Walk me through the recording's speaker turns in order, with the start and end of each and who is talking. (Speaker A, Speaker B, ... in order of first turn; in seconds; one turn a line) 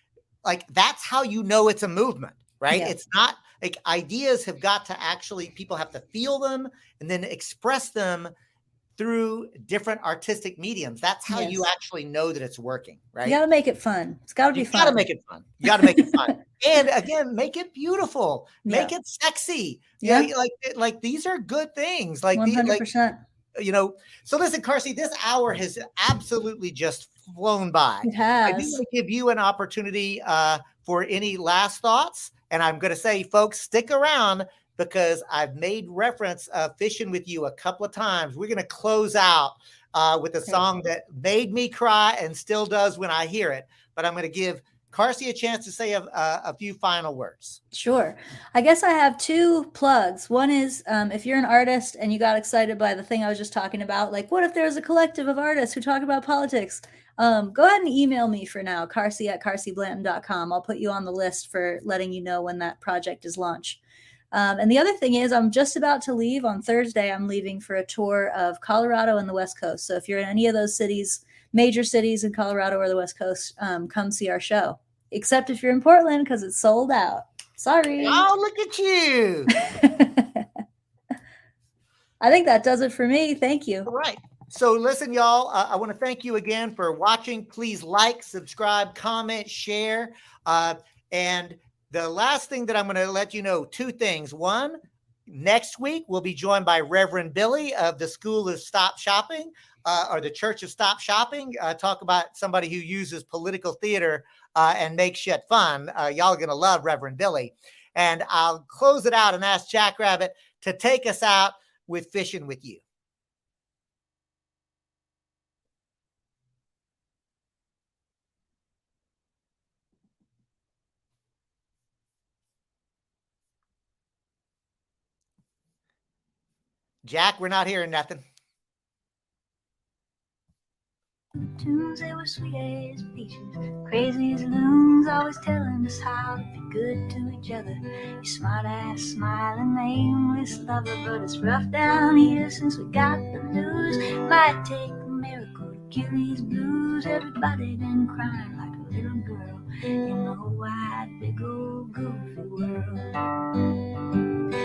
Speaker A: 0.4-8.3
Speaker A: 9.0-13.4
Speaker B: 11.3-11.7
Speaker B: 13.2-15.0
Speaker A: 14.5-22.8
Speaker B: 15.8-16.2
Speaker B: 18.6-18.9
Speaker B: 20.0-20.3
Speaker B: 22.4-23.2
Speaker A: 23.6-47.6
Speaker B: 28.0-28.8
Speaker B: 47.7-63.8
Speaker B: 64.3-78.3
Speaker A: 78.0-79.5
Speaker B: 79.5-80.5
Speaker B: 82.2-83.9
Speaker A: 83.9-112.8
Speaker A: 127.0-128.2
Speaker C: 131.6-153.2